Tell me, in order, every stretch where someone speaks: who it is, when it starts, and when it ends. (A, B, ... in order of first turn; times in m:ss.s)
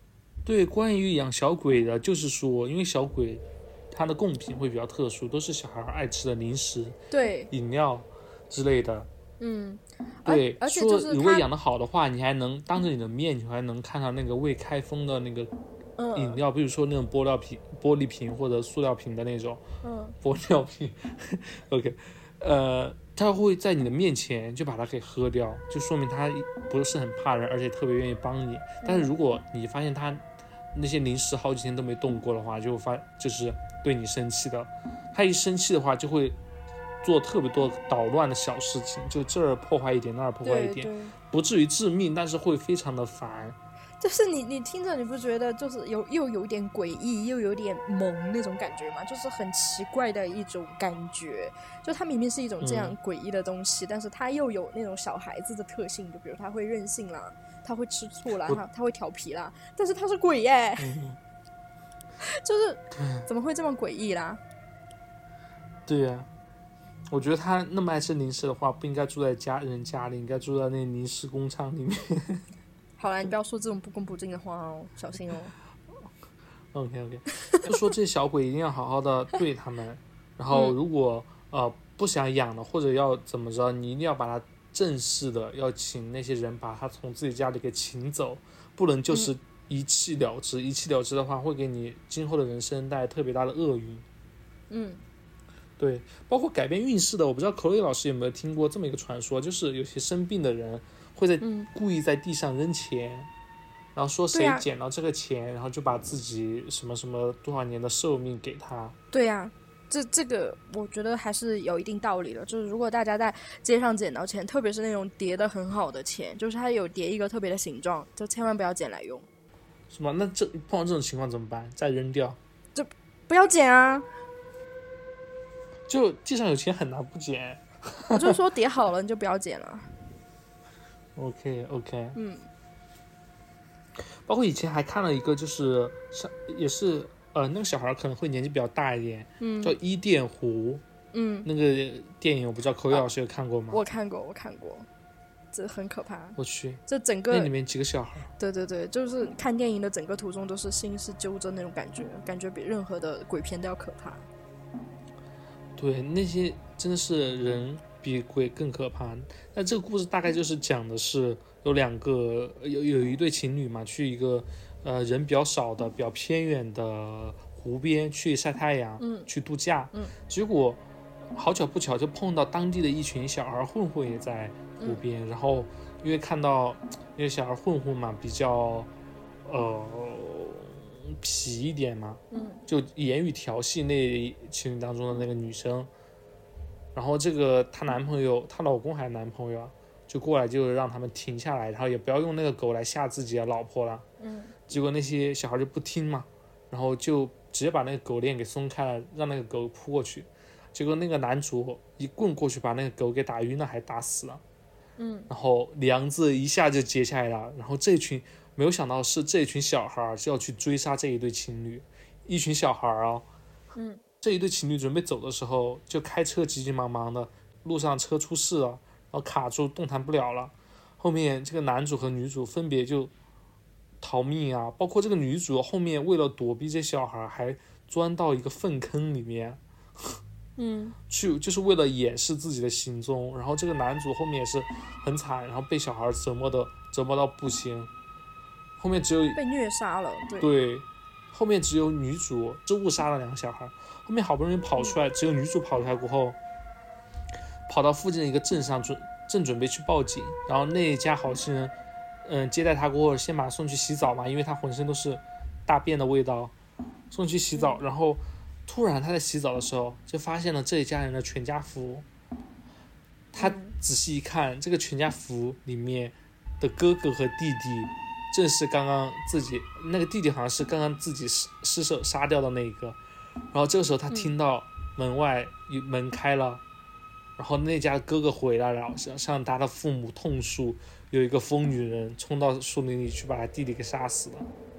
0:00.4-0:07.0 A
0:07.1-0:07.5 B
0:07.5-0:09.1 A
0:09.4-0:11.5 B
0:10.2-0:15.5 A
0:16.0-0:16.4 B
0:16.2-0:19.6 A
0:19.8-0:20.2 B
0:20.2-0:36.4 A
0:28.8-0:29.1 B
0:37.0-0:43.6 A
0:40.4-0:41.1 B
0:44.0-1:01.0 B
0:52.6-0:53.0 A
1:00.8-1:01.2 A
1:02.2-1:04.4 B
1:03.0-1:03.2 A
1:05.9-1:06.3 A
1:07.1-1:12.4 A
1:13.0-1:15.5 B
1:16.7-1:34.0 A
1:34.7-1:35.0 B
1:35.8-1:43.3 A
1:41.4-1:41.7 B
1:44.0-1:49.0 A
1:44.3-1:44.7 B
1:49.1-1:59.3 B
1:59.9-2:02.4 A
2:02.8-2:04.1 B
2:05.9-2:08.4 A
2:08.1-2:09.9 B
2:11.2-2:12.2 A
2:12.2-2:12.5 B
2:14.0-2:20.8 A
2:19.4-2:19.8 B
2:21.1-2:21.5 B
2:21.4-2:23.8 A
2:23.7-2:24.9 B
2:25.5-2:27.5 B
2:26.4-2:28.3 A
2:28.4-2:34.3 B
2:35.8-2:50.8 A
2:49.0-2:49.3 B
2:51.3-2:58.9 A
2:59.4-3:05.9 A
3:02.3-3:02.6 B
3:06.9-3:14.0 A
3:14.2-3:14.5 B
3:14.7-3:24.4 A
3:25.0-3:25.3 B
3:25.3-3:33.3 A
3:33.8-3:34.0 B
3:34.2-3:43.1 A
3:44.0-3:50.2 A
3:50.6-3:51.0 B
3:51.1-3:57.9 A
3:58.8-3:59.4 A
3:59.4-4:00.5 B
4:00.4-4:06.4 A
4:07.7-4:11.7 A
4:12.2-4:16.5 A
4:17.1-4:22.1 A
4:17.6-4:17.8 B
4:23.3-4:33.0 A
4:23.4-4:23.8 B
4:33.5-4:36.6 A
4:37.4-4:44.5 A